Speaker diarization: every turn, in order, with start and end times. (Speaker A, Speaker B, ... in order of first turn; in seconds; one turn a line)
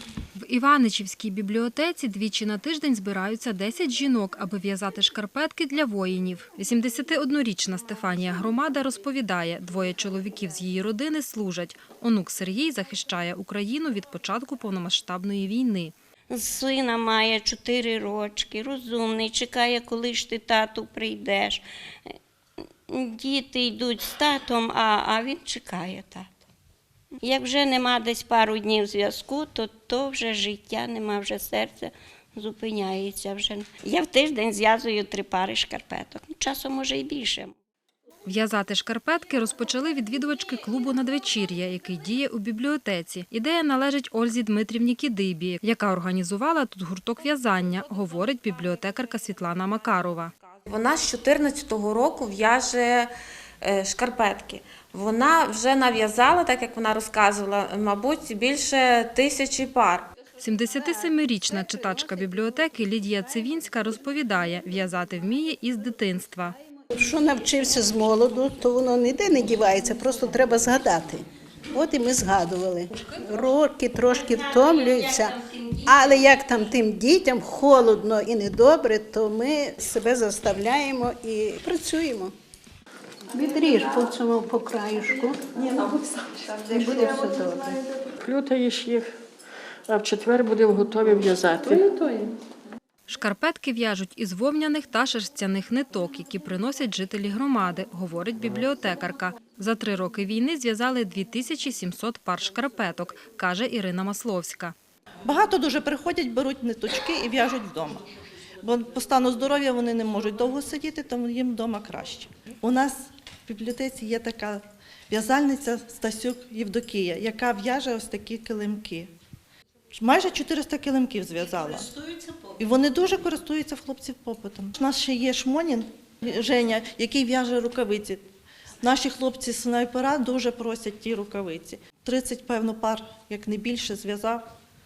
Speaker A: 0.4-15.9
Speaker B: 16.3-22.1
Speaker B: 22.9-26.3
Speaker B: 27.2-37.5
Speaker A: 38.2-50.3
Speaker C: 50.7-60.1
Speaker A: 60.4-66.5
Speaker D: 66.9-82.3
Speaker B: 75.4-75.7
Speaker D: 83.3-87.8
Speaker E: 88.2-89.1
Speaker E: 89.9-92.3
Speaker A: 93.1-104.7
Speaker F: 105.2-108.0
Speaker F: 108.6-119.1
Speaker F: 120.0-121.9
Speaker F: 122.5-128.2
Speaker F: 128.8-134.4